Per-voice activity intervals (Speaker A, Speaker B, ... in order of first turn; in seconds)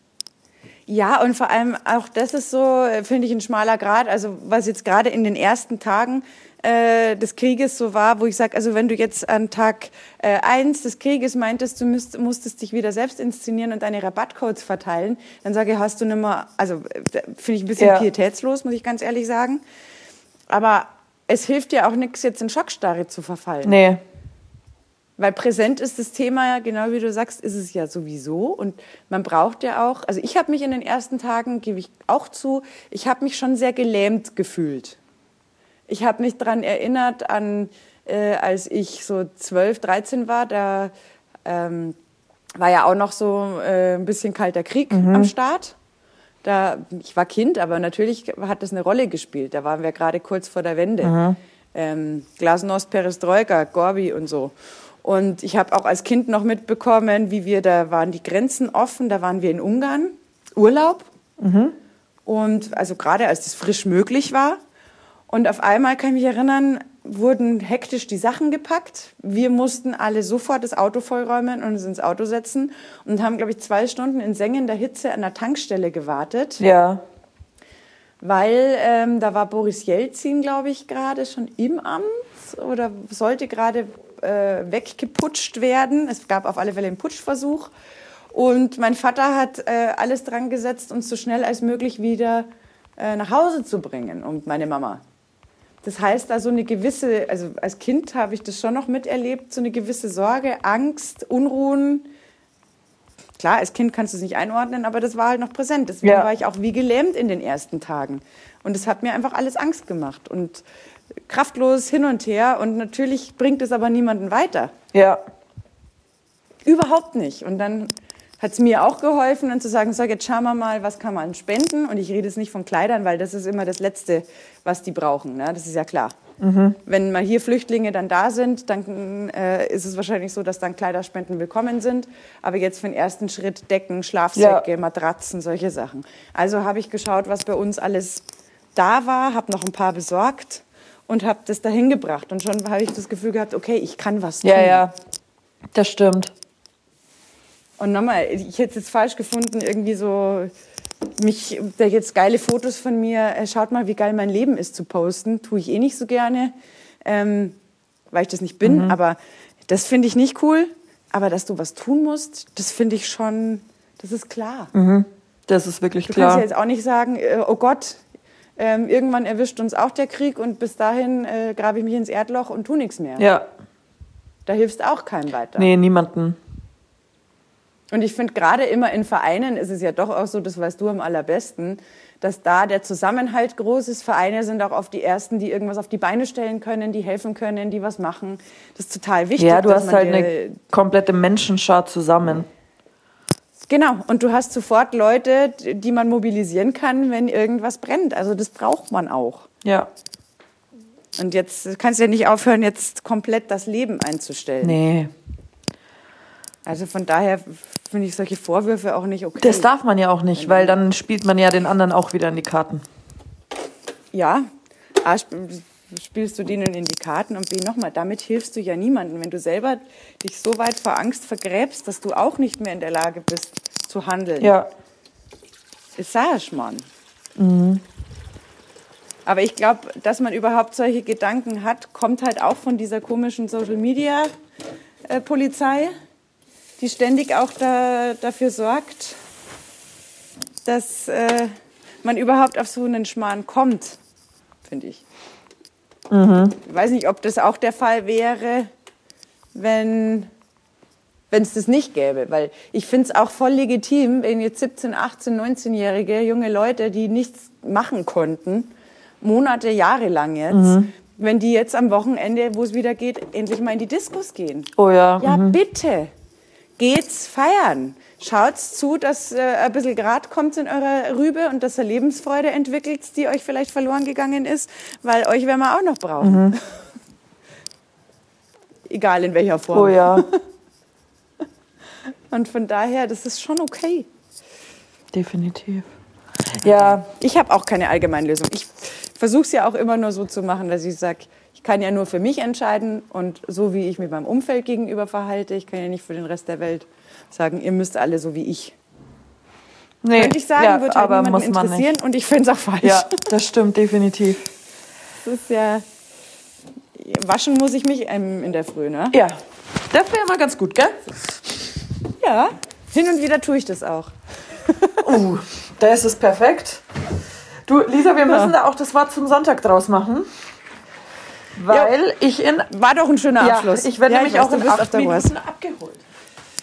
Speaker A: 0.9-19.6, 20.5-23.8, 25.2-35.0, 35.9-40.9, 41.5-42.0, 42.6-45.8, 46.4-51.2, 51.8-61.1, 62.3-64.6, 65.3-76.6, 78.2-87.7, 88.3-95.0, 95.8-102.1, 103.4-110.6, 111.3-114.7, 116.7-126.2, 126.9-138.2, 138.8-144.9, 147.8-150.5, 151.2-156.5, 157.1-157.6, 158.1-164.7, 166.1-168.0, 168.6-173.3, 174.5-175.7, 177.9-190.7, 193.7-199.5, 201.2-204.8, 206.7-209.7, 210.3-210.8, 214.1-214.5, 215.0-224.5, 226.0-226.9, 229.3-234.3, 235.1-236.0, 236.8-239.2, 240.7-241.5, 242.0-244.0, 244.7-245.0, 246.6-248.7, 249.6-250.3, 251.3-266.1, 266.8-276.7, 278.9-280.4, 282.3-284.1, 286.6-298.8, 300.1-303.3, 305.2-305.9, 307.0-309.2, 312.2-315.1, 318.3-318.5, 322.7-325.3
Speaker B: 17.8-18.1, 23.6-24.0, 44.9-45.3, 51.0-51.4, 61.4-61.8, 76.6-77.0, 106.0-106.3, 114.9-115.2, 126.4-126.8, 134.3-134.7, 144.4-144.9, 145.7-146.3, 158.6-159.0, 164.7-166.4, 173.2-173.5, 175.6-176.4, 189.4-192.5, 199.6-199.9, 204.6-205.1, 209.4-212.8, 224.4-224.7, 227.4-227.8, 246.1-246.6, 260.5-260.9, 264.8-265.6, 276.2-276.6, 279.7-280.3, 285.1-285.9, 286.5-287.1, 300.0-301.9, 302.8-304.5, 309.1-311.1, 315.0-316.8, 317.7-320.3, 321.6-322.7, 323.4-326.1